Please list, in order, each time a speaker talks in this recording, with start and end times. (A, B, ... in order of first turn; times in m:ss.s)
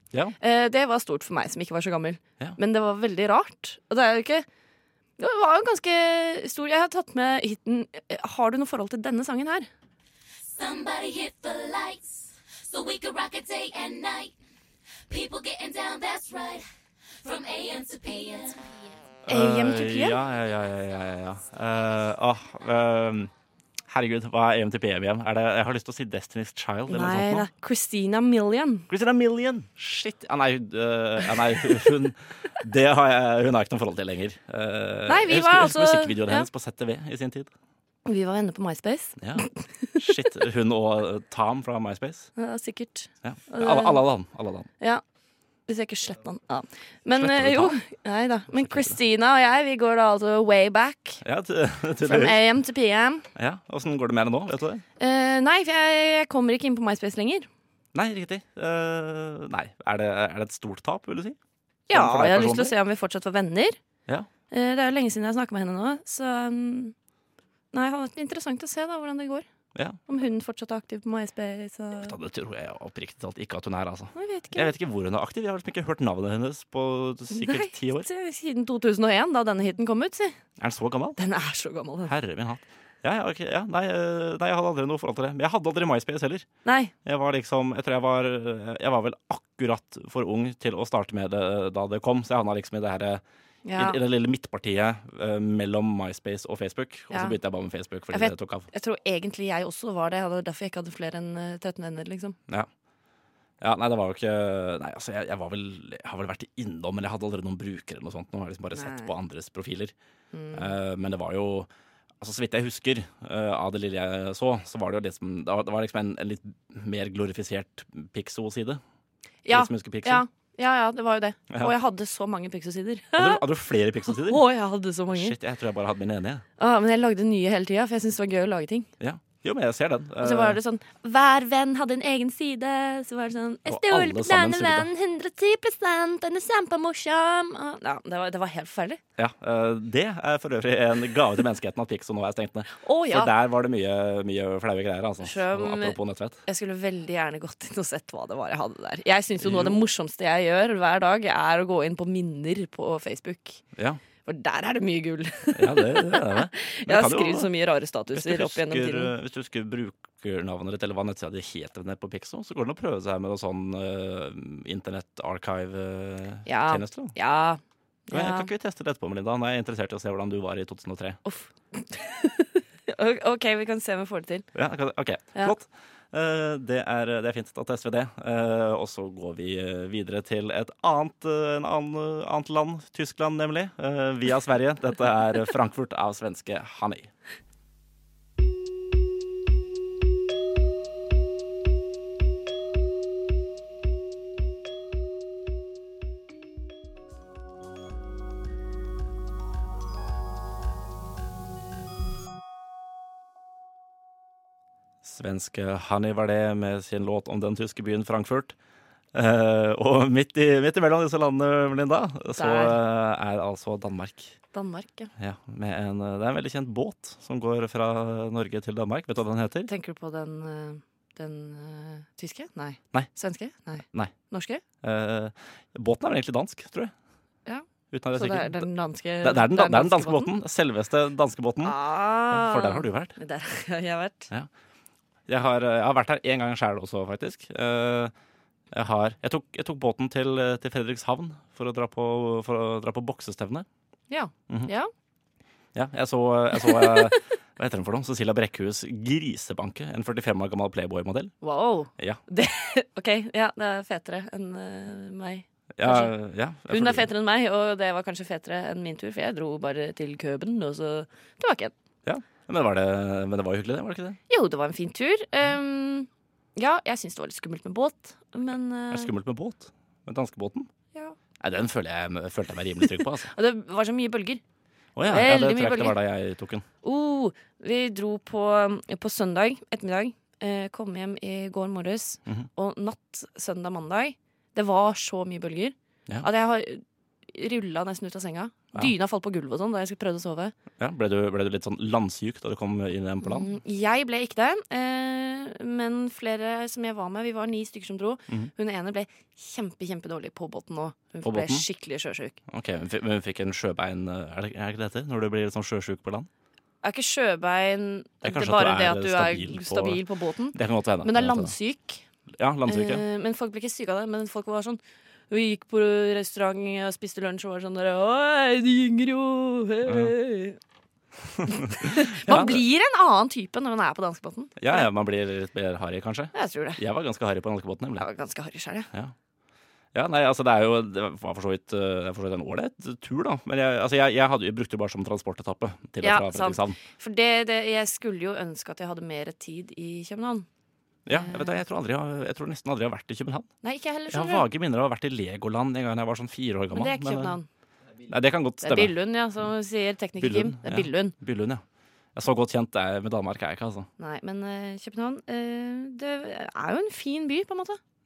0:00.4-0:04.4 A
0:05.2-0:09.7 A
0:10.5-0:14.3 B
0:15.1-0:16.6 B
0:17.2-0:18.6 B
0:19.2-0:23.3 C
0:19.3-0:20.2 A
0:23.9-0:27.5 C
0:26.9-0:28.9 A
0:28.9-0:37.5 C
0:35.1-0:36.5 A
0:38.0-0:40.0 A
0:39.2-0:42.3 C
0:42.4-0:44.0 A
0:43.2-0:44.7 C
0:45.7-0:51.2 A
0:47.1-0:47.8 C
0:48.5-0:49.0 C
0:51.2-0:52.4 C
0:52.0-0:53.3 A
0:53.4-0:54.8 C
0:55.0-0:57.5 A
0:57.9-1:01.4 C
1:01.9-1:03.8 A
1:01.9-1:02.7 C
1:04.5-1:06.9 A
1:07.7-1:09.4 A
1:10.1-1:12.1 A
1:12.0-1:18.1 C
1:14.1-1:14.7 A
1:17.3-1:20.4 A
1:20.6-1:21.2 C
1:21.2-1:22.1 A
1:22.0-1:26.4 C
1:26.6-1:26.9 A
1:27.0-1:33.2 C
1:33.6-1:34.0 A
1:33.7-1:38.7 C
1:37.1-1:37.4 A
1:38.1-1:42.4 A
1:43.6-1:49.9 C
1:48.7-1:49.1 A
1:50.3-1:50.7 A
1:50.5-1:51.7 C
1:52.2-1:58.8 C
1:59.4-2:03.4 A
1:59.5-2:00.2 C
2:03.2-2:04.4 C
2:04.1-2:05.3 A
2:05.1-2:06.4 C
2:06.6-2:08.9 A
2:09.0-2:10.6 C
2:10.2-2:19.0 A
2:13.6-2:14.9 C
2:19.2-2:26.4 C
2:22.8-2:23.3 A
2:25.2-2:33.6 A
2:29.4-2:29.8 C
2:33.7-2:34.0 C
2:34.2-2:39.1 A
2:35.5-2:37.5 C
2:38.1-2:47.2 C
2:46.4-2:48.5 A
2:48.1-2:51.2 C
2:51.2-2:54.4 A
2:54.5-3:07.1 C
3:25.0-3:28.5 C
3:29.1-3:34.4 C
3:32.4-3:32.8 A
3:34.5-3:35.1 A
3:35.2-3:39.7 C
3:39.7-3:44.6 A
3:44.8-3:46.9 C
3:47.4-3:50.3 A
3:47.9-3:48.7 C
3:49.2-3:51.8 C
3:51.6-3:54.3 A
3:52.3-3:53.1 C
3:55.3-3:58.1 C
3:58.7-4:03.6 C
4:04.1-4:04.9 A
4:05.7-4:11.3 C
4:06.6-4:07.0 A
4:11.4-4:16.1 A
4:15.8-4:17.1 C
4:16.7-4:21.7 A
4:22.0-4:24.2 C
4:24.3-4:29.1 A
4:28.9-4:30.7 C
4:31.4-4:33.3 C
4:33.3-4:34.4 A
4:35.0-4:36.6 C
4:35.0-4:36.0 A
4:36.8-4:50.5 A
4:50.8-4:53.5 C
4:53.2-5:02.4 A
5:01.2-5:01.6 C
5:02.5-5:06.3 C
5:06.8-5:12.0 A
5:08.2-5:11.5 C
5:12.3-5:13.0 C
5:12.7-5:14.8 A
5:15.3-5:20.6 A
5:19.8-5:20.1 C
5:21.3-5:22.6 C
5:21.5-5:24.9 A
5:24.6-5:28.1 C
5:26.3-5:26.8 A
5:28.0-5:28.9 A
5:29.9-5:36.8 C
5:36.0-5:40.4 A
5:41.0-5:43.5 C
5:41.1-5:41.5 A
5:43.6-5:44.5 A
5:44.1-5:47.4 C
5:46.7-5:47.5 A
5:48.1-5:48.9 C
5:48.6-5:51.1 A
5:50.2-5:51.6 C
5:52.1-5:53.9 C
5:54.0-5:57.8 A